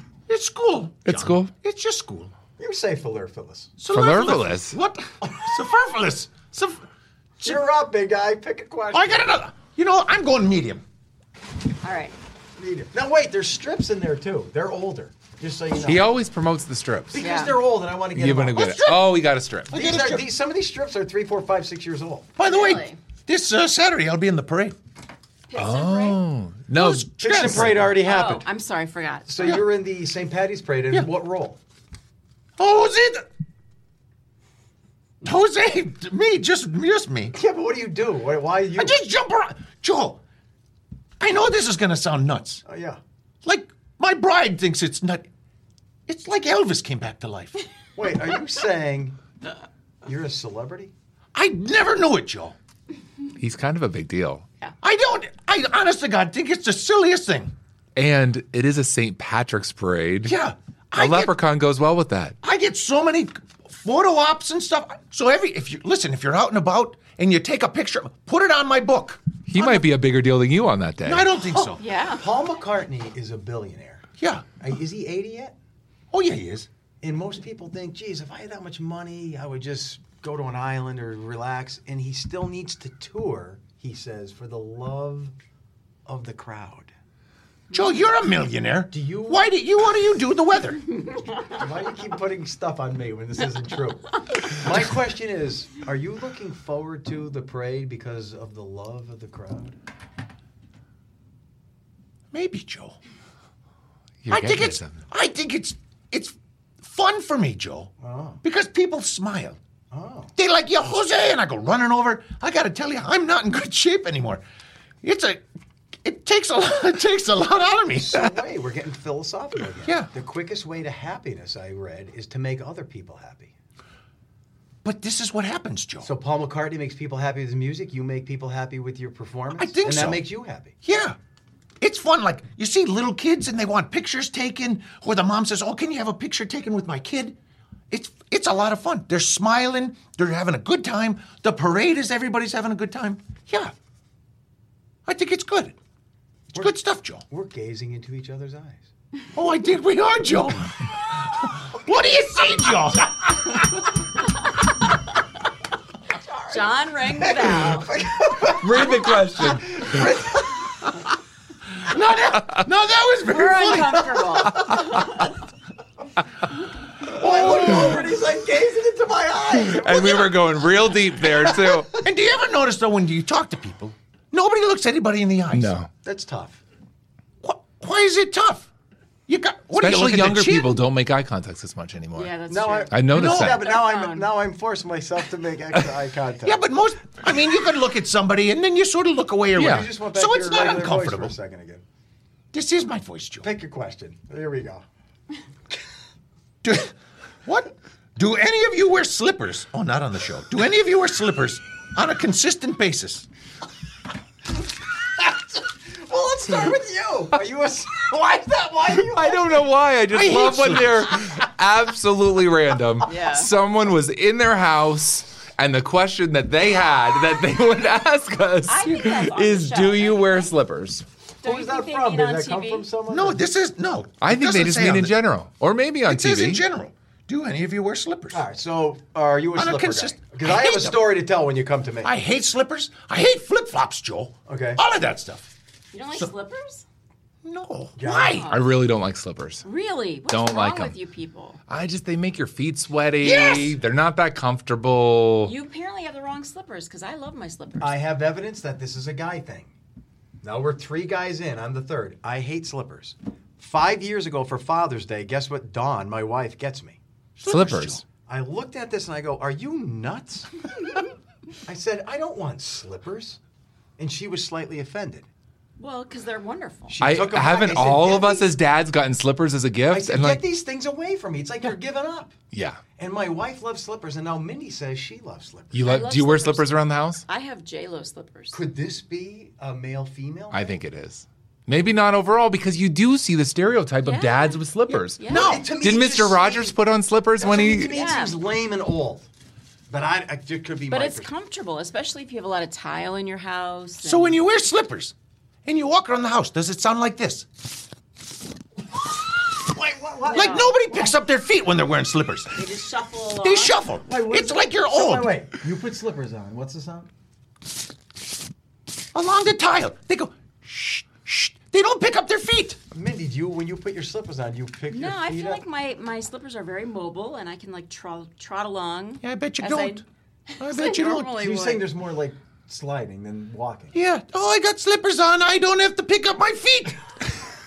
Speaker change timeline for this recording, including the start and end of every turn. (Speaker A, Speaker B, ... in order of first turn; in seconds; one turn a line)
Speaker A: 0.3-2.3
Speaker B: 1.1-1.5
Speaker C: 2.6-3.7
Speaker A: 3.8-6.8
Speaker B: 3.9-4.8
Speaker C: 5.2-5.5
Speaker C: 7.4-9.4
Speaker A: 8.9-10.8
Speaker D: 11.8-12.1
Speaker C: 12.6-16.1
Speaker B: 15.8-17.2
Speaker C: 17.1-18.7
Speaker D: 17.2-17.5
Speaker B: 18.1-19.7
Speaker A: 18.5-20.3
Speaker C: 19.7-22.3
Speaker A: 22.4-24.8
Speaker D: 22.4-23.0
Speaker D: 25.5-26.2
Speaker B: 25.5-27.8
Speaker A: 26.7-27.9
Speaker C: 27.2-28.4
Speaker D: 28.0-29.6
Speaker C: 29.3-31.6
Speaker A: 29.4-29.6
Speaker A: 32.6-33.2
Speaker A: 35.2-37.4
Speaker C: 37.3-39.0
Speaker A: 38.7-40.2
Speaker A: 41.2-42.6
Speaker C: 42.6-43.0
Speaker A: 43.4-45.2
Speaker A: 46.1-47.6
Speaker C: 48.0-49.1
Speaker C: 50.0-50.9
Speaker A: 51.3-52.5
Speaker B: 53.4-54.5
Speaker A: 54.8-57.5
Speaker B: 58.0-60.4
Speaker A: 60.2-61.4
Speaker B: 61.0-62.4
Speaker A: 62.4-69.8
Speaker B: 69.5-71.3
Speaker A: 71.0-71.8
Speaker D: 71.8-72.2
Speaker C: 72.1-74.0
Speaker A: 74.2-74.5
Speaker C: 74.6-75.5
Speaker A: 76.1-76.7
Speaker C: 77.0-85.3
Speaker C: 86.0-86.9
Speaker A: 87.7-90.8
Speaker C: 88.9-89.5
Speaker C: 91.5-99.7
Speaker A: 102.3-103.0
Speaker B: 104.2-104.9
Speaker A: 104.3-107.9
Speaker C: 108.0-108.4
Speaker A: 108.4-109.6
Speaker C: 109.9-110.3
Speaker A: 110.3-114.4
Speaker A: 115.0-115.5
Speaker A: 116.0-118.3
Speaker C: 117.9-123.5
Speaker A: 119.8-120.1
Speaker A: 124.8-126.1
Speaker C: 126.0-130.7
Speaker A: 129.5-130.2
Speaker A: 130.8-131.2
Speaker A: 131.8-137.3
Speaker A: 137.9-143.7
Speaker A: 145.1-145.8
Speaker A: 146.5-147.2
Speaker C: 147.3-148.8
Speaker A: 149.3-153.6
Speaker C: 156.3-156.6
Speaker D: 156.5-157.9
Speaker C: 157.2-160.7
Speaker B: 158.4-160.2
Speaker A: 161.8-164.4
Speaker D: 163.2-165.1
Speaker C: 164.7-165.0
Speaker C: 167.0-171.9
Speaker A: 167.5-167.8
Speaker B: 169.6-172.0
Speaker A: 172.0-175.7
Speaker B: 175.5-175.9
Speaker C: 176.0-176.6
Speaker A: 177.4-178.7
Speaker A: 179.3-180.8
Speaker B: 179.8-182.3
Speaker D: 182.1-184.3
Speaker C: 182.5-186.6
Speaker B: 182.9-183.6
Speaker A: 183.1-183.6
Speaker A: 186.4-191.3
Speaker B: 189.6-189.9
Speaker C: 189.6-191.8
Speaker A: 192.5-193.5
Speaker C: 193.4-194.8
Speaker A: 196.6-196.9
Speaker A: 197.4-203.3
Speaker C: 205.2-209.7
Speaker B: 208.9-221.0
Speaker A: 210.1-211.2
Speaker D: 213.0-213.5
Speaker D: 218.7-220.5
Speaker D: 221.4-222.9
Speaker C: 221.4-223.4
Speaker A: 223.1-225.2
Speaker B: 224.2-226.6
Speaker A: 226.1-228.4
Speaker C: 228.3-232.1
Speaker A: 229.5-231.1
Speaker A: 232.0-235.5
Speaker C: 234.4-234.8
Speaker D: 235.9-236.8
Speaker A: 237.4-238.5
Speaker C: 238.0-238.5
Speaker D: 238.3-238.8
Speaker B: 238.5-239.6
Speaker D: 239.6-241.6
Speaker B: 240.3-240.9
Speaker B: 241.7-245.5
Speaker A: 243.2-243.8
Speaker D: 245.4-247.9
Speaker C: 247.8-249.7
Speaker C: 250.4-257.0
Speaker A: 257.4-258.0
Speaker B: 257.4-258.0
Speaker C: 258.2-261.0
Speaker C: 261.6-263.4
Speaker C: 264.0-265.2
Speaker D: 265.8-267.0
Speaker C: 266.9-268.5
Speaker B: 267.0-270.4
Speaker C: 269.9-272.3
Speaker B: 272.5-272.8
Speaker C: 273.0-276.0
Speaker B: 275.7-277.2
Speaker D: 275.8-278.6
Speaker C: 278.5-280.8
Speaker B: 280.5-285.2
Speaker D: 284.0-284.6
Speaker A: 284.9-285.7
Speaker D: 285.2-285.6
Speaker C: 285.3-286.8
Speaker B: 285.8-287.9
Speaker C: 287.4-289.3
Speaker D: 287.8-288.4
Speaker C: 289.9-291.3
Speaker D: 290.9-294.4
Speaker A: 294.0-295.1
Speaker A: 295.6-297.4
Speaker C: 299.6-300.7
Speaker D: 300.2-301.1
Speaker A: 300.3-302.6
Speaker D: 302.5-303.8
Speaker A: 303.4-305.4
Speaker C: 304.0-307.1
Speaker A: 309.1-312.8
Speaker C: 312.9-315.6
Speaker D: 314.9-321.9
Speaker A: 319.2-320.0
Speaker A: 320.6-321.3
Speaker C: 321.2-323.9
Speaker A: 323.9-327.0